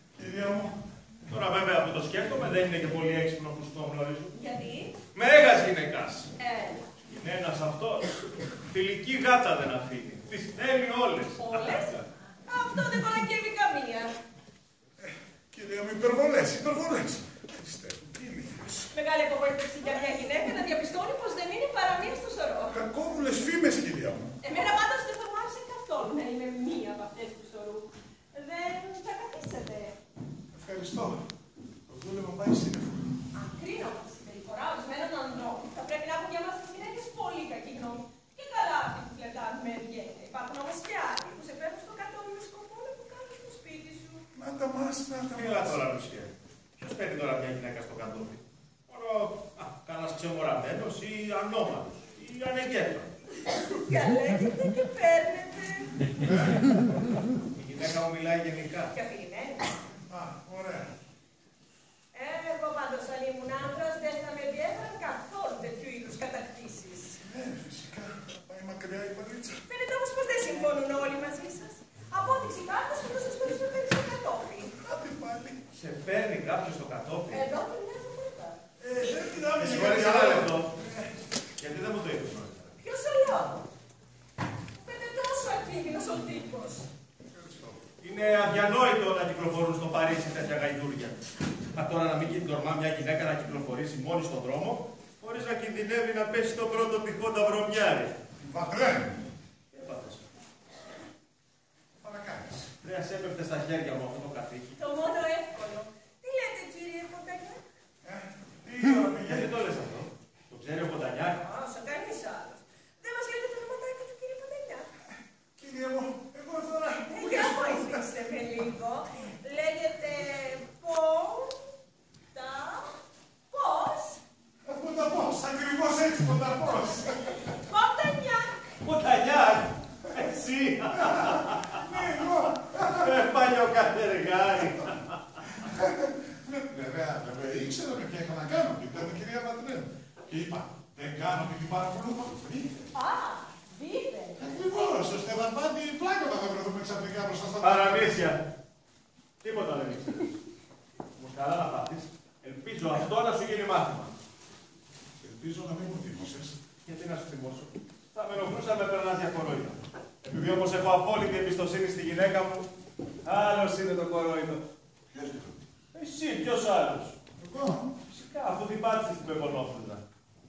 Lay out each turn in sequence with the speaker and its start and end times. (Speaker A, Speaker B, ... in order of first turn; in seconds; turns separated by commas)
Speaker A: 0.1-0.8, Speaker B: 1.3-4.4, Speaker C: 4.3-4.9, Speaker B: 5.1-6.3, Speaker C: 6.4-6.8, Speaker B: 7.0-12.1, Speaker C: 11.4-11.9, Speaker C: 12.4-14.1, Speaker A: 15.0-18.9, Speaker C: 18.9-22.8, Speaker A: 22.7-24.4, Speaker C: 24.4-29.9, Speaker A: 30.5-31.2, Speaker A: 31.9-33.1, Speaker C: 33.3-44.2, Speaker A: 44.3-45.8, Speaker B: 45.3-53.2, Speaker C: 53.5-56.1, Speaker A: 56.2-56.6, Speaker B: 57.5-58.9, Speaker C: 58.9-59.7, Speaker A: 60.1-60.9, Speaker C: 62.1-67.2, Speaker A: 67.2-69.6, Speaker C: 69.7-74.7, Speaker A: 74.7-75.6, Speaker B: 75.7-77.4, Speaker C: 77.3-78.6, Speaker A: 78.8-81.1, Speaker B: 79.5-80.7, Speaker B: 81.6-82.8, Speaker C: 82.8-83.7, Speaker C: 84.8-86.9, Speaker A: 87.3-87.8, Speaker B: 88.0-91.2, Speaker B: 91.7-98.1, Speaker A: 98.4-99.3, Speaker B: 99.7-100.2, Speaker A: 102.0-102.7, Speaker B: 102.8-104.8, Speaker C: 104.8-107.6, Speaker A: 108.0-109.5, Speaker B: 108.8-111.4, Speaker C: 111.4-114.9, Speaker A: 115.6-118.0, Speaker C: 117.1-121.6, Speaker C: 122.3-122.9, Speaker C: 123.5-124.2, Speaker A: 124.6-127.5, Speaker C: 127.4-128.7, Speaker B: 128.8-131.9, Speaker A: 130.9-133.2, Speaker B: 132.9-135.2, Speaker A: 135.4-142.9, Speaker C: 142.9-144.5, Speaker A: 144.4-148.2, Speaker B: 147.6-148.4, Speaker B: 149.4-150.4, Speaker B: 151.1-154.1, Speaker A: 155.2-156.6, Speaker B: 156.8-162.7, Speaker B: 163.2-164.6, Speaker A: 165.1-165.6, Speaker B: 165.9-167.1, Speaker A: 167.4-168.0, Speaker B: 168.1-170.0